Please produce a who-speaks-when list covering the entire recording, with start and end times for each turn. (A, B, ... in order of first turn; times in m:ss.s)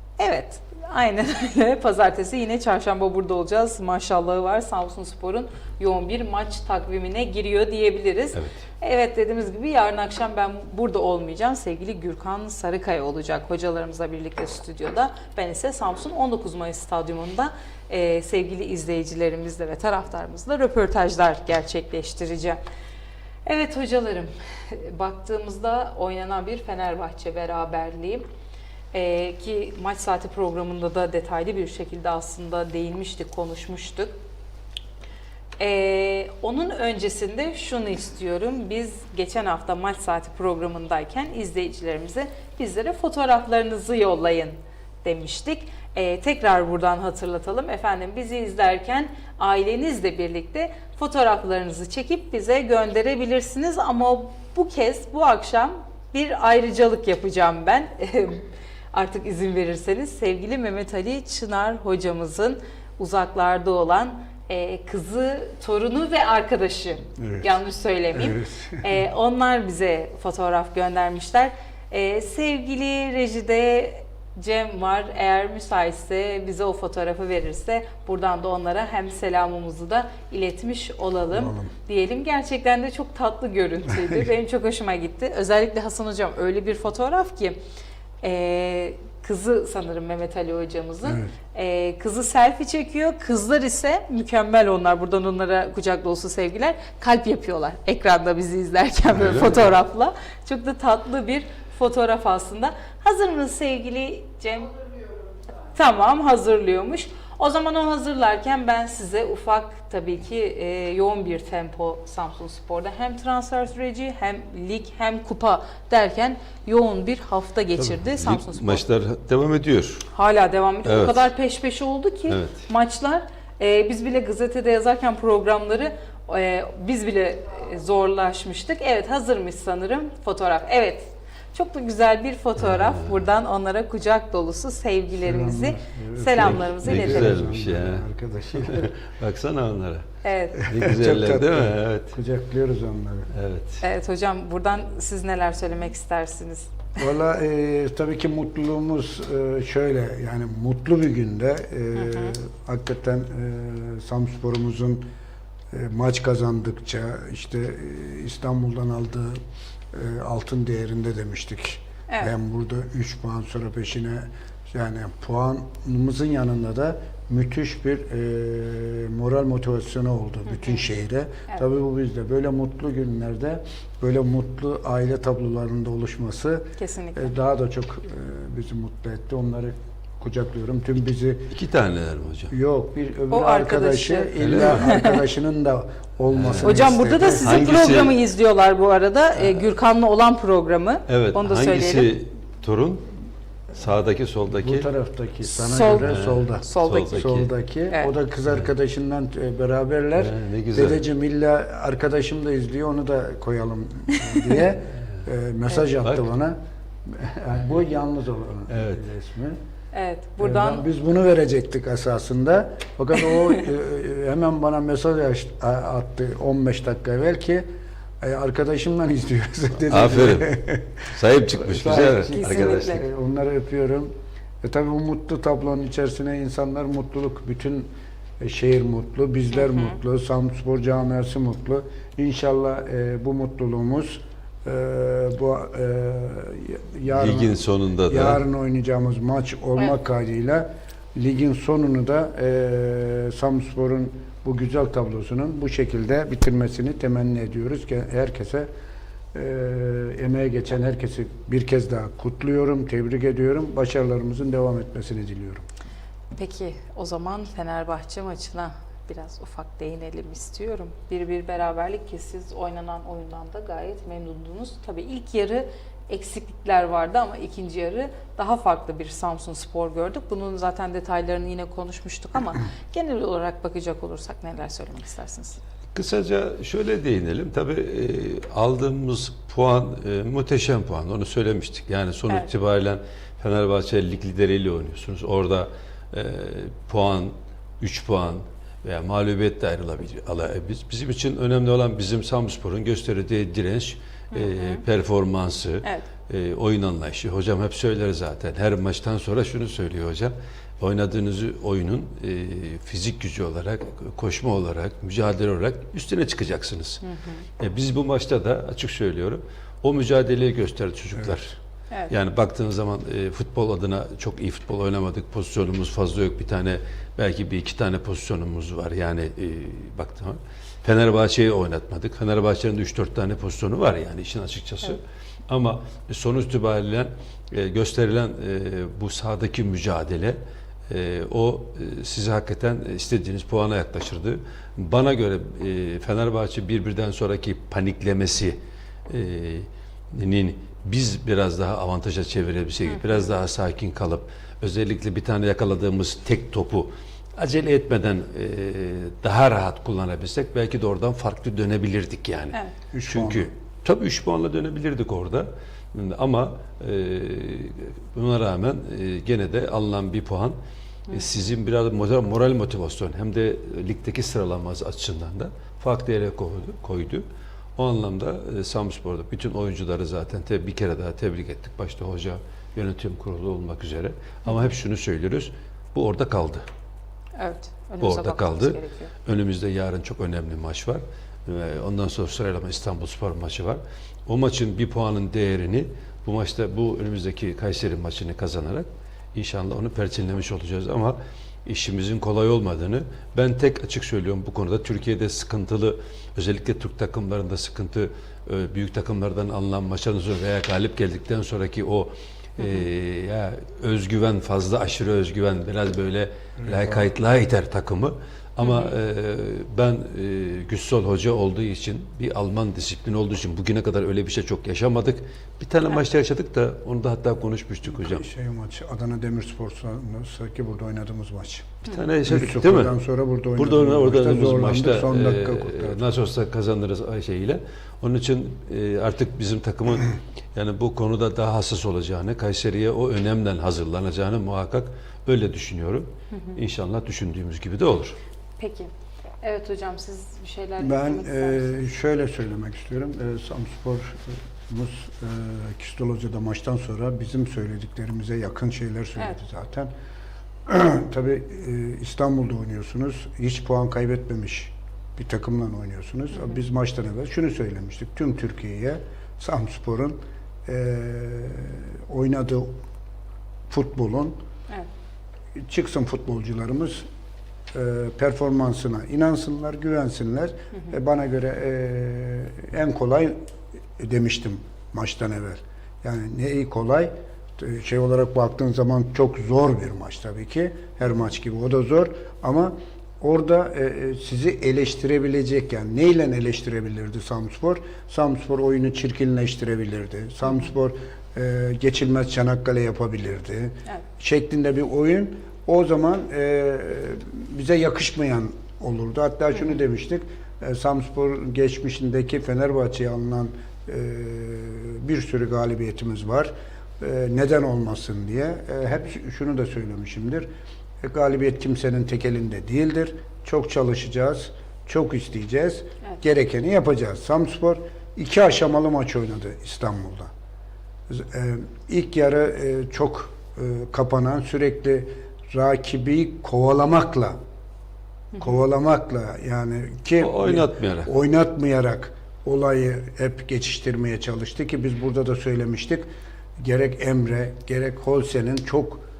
0:00.2-0:22.6 A
0:23.5-0:28.3 A
0:28.9-0:34.2 A
0:35.6-1:27.6 A
1:07.2-1:07.5 B
1:08.1-1:08.9 B
1:21.3-1:21.7 B
1:28.2-1:44.8 A
1:31.0-1:31.3 B
1:45.7-1:58.8 A
1:57.8-2:00.1 C
2:00.1-2:17.3 A
2:00.8-2:01.3 C
2:02.3-2:02.6 C
2:12.6-2:13.2 C
2:15.2-2:18.9 B
2:16.4-2:20.0 C
2:20.2-2:20.7 A
2:20.6-2:22.2 C
2:20.7-2:23.3 B
2:23.3-2:23.8 C
2:23.8-2:26.7 A
2:27.0-2:35.0 B
2:32.0-2:32.4 A
2:35.7-2:39.4 B
2:39.9-3:01.5 B
2:42.1-2:42.3 A
2:50.5-2:50.8 A
2:56.8-2:57.3 A
3:01.5-3:02.5 C
3:02.5-3:07.9 B
3:03.3-3:05.2 A
3:04.4-3:04.9 C
3:06.3-3:08.2 C
3:06.6-3:12.1 A
3:11.1-3:13.1 C
3:13.7-3:14.9 C
3:14.6-3:29.6 B
3:15.4-3:17.2 A
3:16.0-3:17.5 C
3:20.2-3:21.0 C
3:28.7-3:29.0 C
3:29.9-3:30.9 A
3:30.4-3:37.7 B
3:38.2-3:44.1 B
3:39.9-3:40.5 C
3:41.1-3:43.0 C
3:42.2-3:43.0 A
3:44.6-4:08.7 B
3:49.5-3:50.0 A
3:57.1-3:58.4 C
4:09.3-4:15.7 B
4:16.3-4:35.6 A
4:35.9-5:07.0 C
4:54.3-4:54.8 A
5:07.0-5:07.4 A
5:07.6-5:11.6 C
5:12.1-5:30.4 C
5:30.9-5:38.6 C
5:39.1-6:00.6 C
5:42.9-5:43.3 A
5:52.9-5:53.5 B
6:01.1-6:07.3 C
6:07.8-6:16.6 C
6:14.5-6:14.7 A
6:17.4-6:19.1 A
6:18.0-6:58.2 C
6:42.6-6:42.9 A
6:46.6-6:47.0 B
6:48.6-6:49.0 A
6:57.9-7:06.2 B
7:01.9-7:02.9 C
7:03.6-7:18.2 C
7:16.3-7:16.6 A
7:18.6-7:21.8 A
7:20.8-7:29.9 B
7:30.7-7:42.7 B
7:36.3-7:36.6 A
7:43.7-7:44.4 B
7:45.6-7:47.1 B
7:47.7-7:53.4 B
7:54.0-8:30.5 B
8:31.0-8:40.3 B
8:41.1-8:47.4 B
8:48.4-8:56.1 B
8:50.2-8:51.1 C
8:56.6-8:59.0 B